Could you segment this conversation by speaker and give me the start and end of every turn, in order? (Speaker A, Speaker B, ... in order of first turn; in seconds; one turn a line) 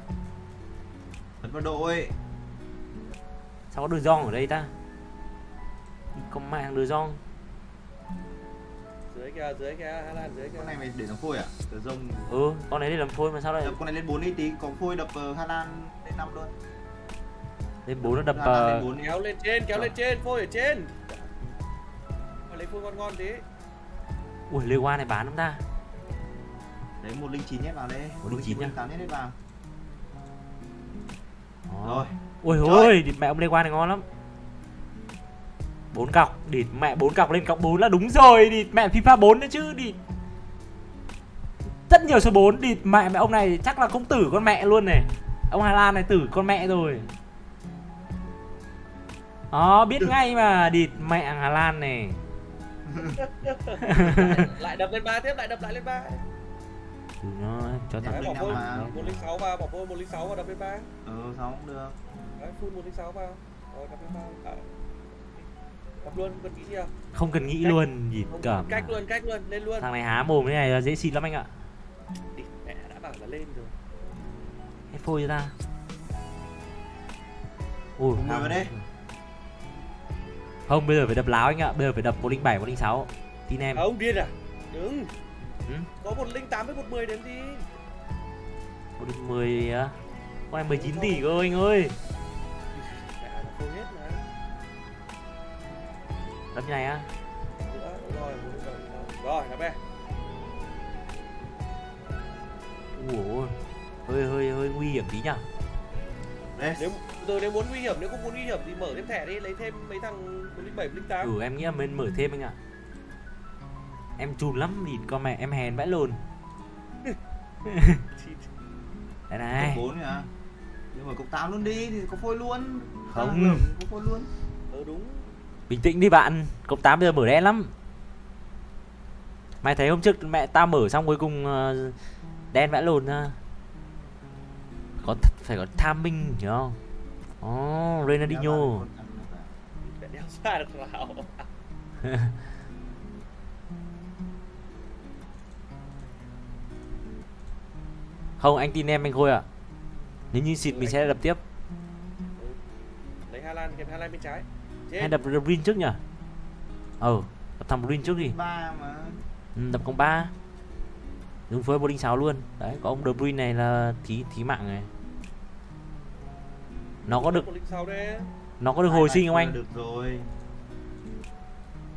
Speaker A: 1.4-2.1
Speaker B: 3.7-4.7
Speaker B: 6.2-7.2
Speaker C: 9.1-10.8
Speaker A: 10.6-12.3
Speaker B: 12.3-13.8
Speaker A: 13.6-16.5
Speaker B: 17.9-18.9
Speaker A: 18.0-19.2
Speaker C: 18.9-21.3
Speaker C: 22.5-23.4
Speaker B: 24.5-25.6
Speaker A: 27.0-29.4
Speaker B: 28.2-28.7
Speaker B: 31.7-34.0
Speaker A: 31.8-33.0
Speaker B: 35.9-40.0
Speaker B: 41.9-47.1
Speaker B: 49.5-52.2
Speaker A: 52.9-53.2
Speaker C: 53.2-56.2
Speaker B: 53.8-54.5
Speaker B: 57.2-59.3
Speaker A: 58.0-58.9
Speaker C: 58.1-60.9
Speaker A: 61.0-62.0
Speaker C: 62.4-64.7
Speaker C: 65.2-65.5
Speaker C: 66.0-66.9
Speaker B: 67.1-69.0
Speaker C: 68.3-69.9
Speaker B: 69.8-71.5
Speaker C: 72.3-73.7
Speaker B: 74.9-75.5
Speaker B: 78.0-78.8
Speaker A: 78.1-78.7
Speaker B: 80.7-83.8
Speaker C: 83.8-85.1
Speaker C: 86.0-87.7
Speaker B: 89.0-90.0
Speaker B: 90.5-92.0
Speaker C: 90.7-91.2
Speaker C: 92.7-94.2
Speaker B: 96.5-97.1
Speaker C: 97.7-99.8
Speaker B: 103.0-103.5
Speaker B: 104.1-105.4
Speaker A: 106.6-107.0
Speaker C: 106.8-111.3
Speaker B: 111.2-112.6
Speaker B: 114.2-116.2
Speaker B: 117.7-118.0
Speaker C: 118.2-118.5
Speaker B: 119.3-119.8
Speaker A: 119.6-120.3
Speaker A: 120.9-124.3
Speaker B: 123.1-123.7
Speaker C: 124.7-125.3
Speaker B: 125.7-127.7
Speaker B: 129.6-131.9
Speaker B: 132.5-133.4
Speaker B: 135.0-136.8
Speaker B: 137.4-138.9
Speaker A: 138.2-139.5
Speaker C: 139.8-141.5
Speaker B: 142.0-142.3
Speaker B: 148.4-149.4
Speaker B: 150.3-151.4
Speaker C: 150.7-151.1
Speaker C: 153.3-155.2
Speaker B: 155.0-156.0
Speaker B: 157.0-158.4
Speaker A: 158.1-159.2
Speaker B: 159.6-160.3
Speaker B: 161.5-164.9
Speaker B: 167.1-167.5
Speaker C: 167.1-168.3
Speaker B: 168.6-169.6
Speaker A: 168.8-170.3